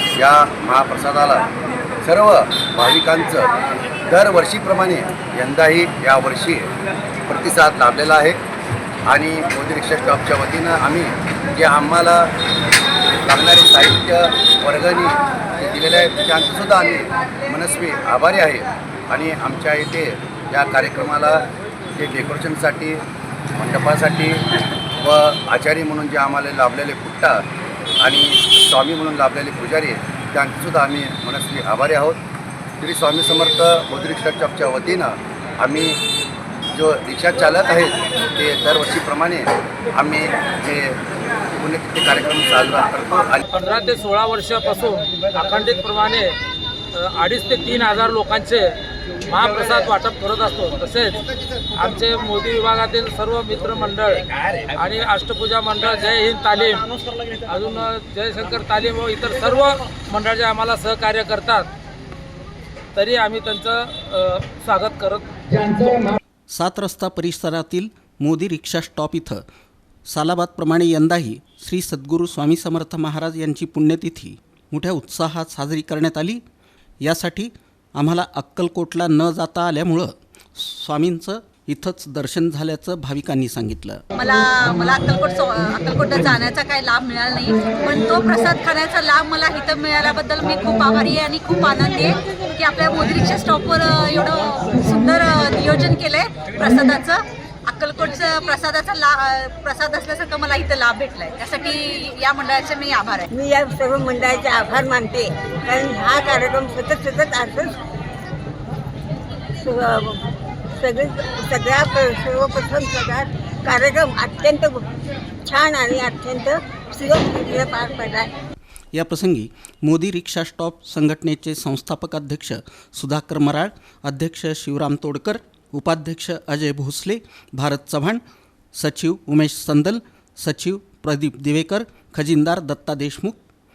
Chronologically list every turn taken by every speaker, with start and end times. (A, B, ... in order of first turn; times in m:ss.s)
0:00.2-0:01.5 A
0:02.0-0:03.5 A
0:04.0-0:06.7 A
0:07.3-0:08.4 A
0:09.0-0:12.3 A
0:13.2-0:23.0 A
0:23.5-0:24.4 A
0:25.0-0:27.4 A
0:28.0-0:32.2 A
0:32.8-0:36.0 A
0:36.7-0:41.0 A
0:41.6-0:43.4 A
0:43.5-0:46.3 B
0:46.9-0:48.7 B
0:49.2-0:51.2 B
0:51.7-1:01.7 B
1:02.9-1:05.3 B
1:06.5-1:09.4 C
1:10.1-1:16.4 C
1:17.0-1:24.0 C
1:24.1-1:43.2 D
1:43.3-1:47.8 E
1:49.6-1:54.9 E
1:55.4-1:58.3 E
1:58.9-2:08.2 C
2:08.7-2:13.4 C